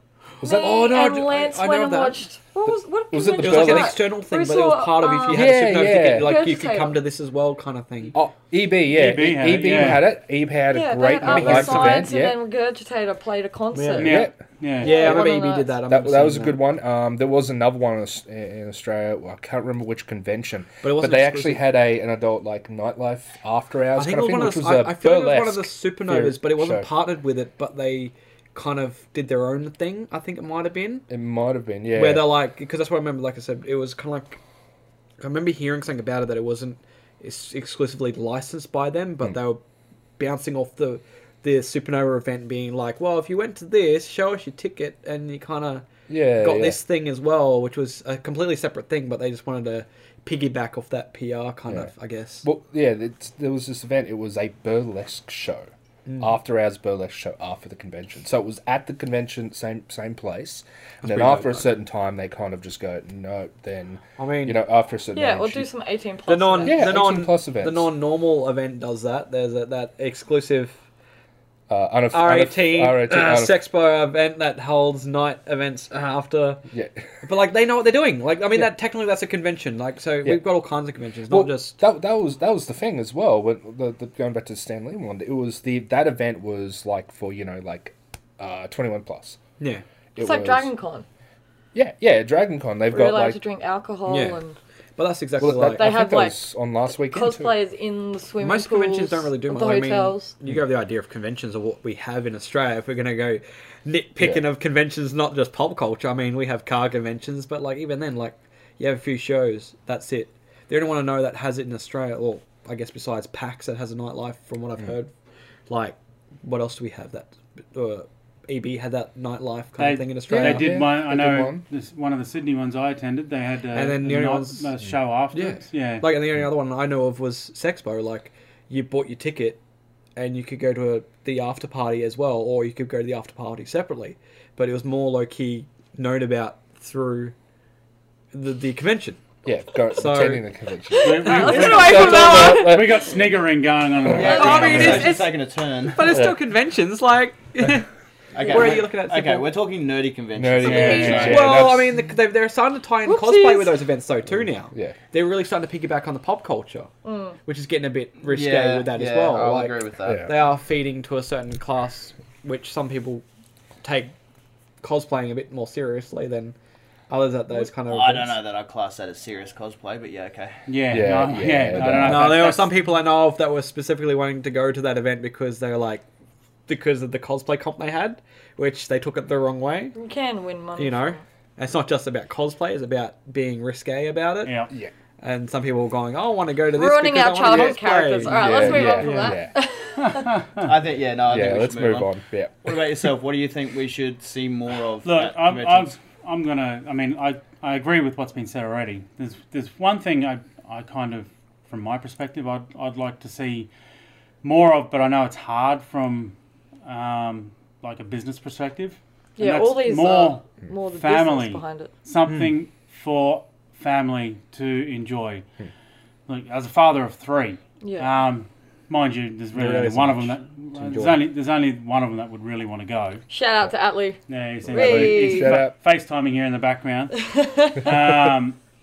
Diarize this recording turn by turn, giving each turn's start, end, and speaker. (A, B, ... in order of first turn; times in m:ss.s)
0:00.4-0:02.2 A
0:00.4-0:00.9 B
0:00.4-0:07.0 C
0:03.1-0:04.0 B
0:03.4-0:08.2 A
0:05.3-0:06.5 B
0:08.1-0:12.4 B
0:08.9-0:10.1 D
0:10.7-0:14.2 C
0:11.2-0:12.1 A
0:13.7-0:14.2 A
0:14.0-0:14.4 B
0:14.0-0:15.0 D
0:14.8-0:15.8 C
0:14.8-0:16.6 A
0:14.9-0:15.3 B
0:15.9-0:26.9 B
0:20.8-0:21.6 A
0:24.0-0:31.0 A
0:31.1-0:32.3 B
0:31.9-0:34.4 A
0:35.2-0:39.6 A
0:40.2-0:52.4 A
0:46.1-0:46.8 B
0:52.4-1:05.7 B
0:56.0-0:56.3 A
1:01.0-1:01.7 A
1:04.2-1:04.6 A
1:05.1-1:06.8 C
1:06.3-1:10.8 A
1:06.6-1:07.9 B
1:11.7-1:13.6 B
1:12.1-1:16.6 A
1:16.7-1:17.1 B
1:17.2-1:21.8 A
1:21.3-1:29.4 B
1:29.6-1:29.8 A
1:30.1-1:30.7 B
1:30.2-1:31.0 C
1:31.7-1:33.4 B
1:32.9-1:34.6 C
1:34.0-1:34.4 A
1:35.0-1:36.0 A
1:35.4-1:37.5 B
1:35.6-1:36.4 C
1:37.1-1:40.3 C
1:38.4-1:55.1 A
1:55.7-2:00.7 A
1:59.8-2:06.2 D
2:00.3-2:01.6 B
2:03.7-2:04.7 A
2:05.3-2:09.6 A
2:10.2-2:17.3 A
2:18.3-2:19.2 A
2:19.4-2:23.1 B
2:19.9-2:20.4 A
2:21.0-2:23.0 C
2:21.0-2:25.1 D
2:24.1-2:26.2 E
2:24.2-2:27.9 A
2:24.2-2:25.2 C
2:26.1-2:26.4 B
2:28.3-2:31.6 E
2:28.5-2:29.5 A
2:30.4-2:31.9 B
2:30.6-2:31.5 D
2:31.2-2:36.9 A
2:33.0-2:33.8 C
2:37.0-2:37.4 C
2:37.4-2:43.2 A
2:38.3-2:40.2 E
2:40.0-2:40.3 B
2:43.8-2:44.1 A
2:44.8-2:46.6 A
2:47.1-2:48.4 A
2:47.5-2:50.6 E
2:50.7-2:52.7 D
2:50.9-2:52.3 B
2:51.7-2:56.0 A
2:56.7-3:00.0 A
2:59.9-3:01.2 C
3:00.8-3:04.6 A
3:04.4-3:04.7 D
3:05.2-3:09.4 A
3:06.7-3:10.4 C
3:08.3-3:09.5 B
3:10.0-3:10.7 D
3:10.6-3:15.9 E
3:11.3-3:12.8 B
3:15.0-3:23.7 D
3:24.4-3:35.4 D
3:29.4-3:31.9 C
3:32.2-3:32.5 A
3:36.3-3:43.2 D
3:37.8-3:38.1 C
3:39.5-3:41.2 A
3:43.3-3:45.6 C
3:44.3-3:48.6 D
3:44.7-3:45.7 B
3:47.2-3:47.8 C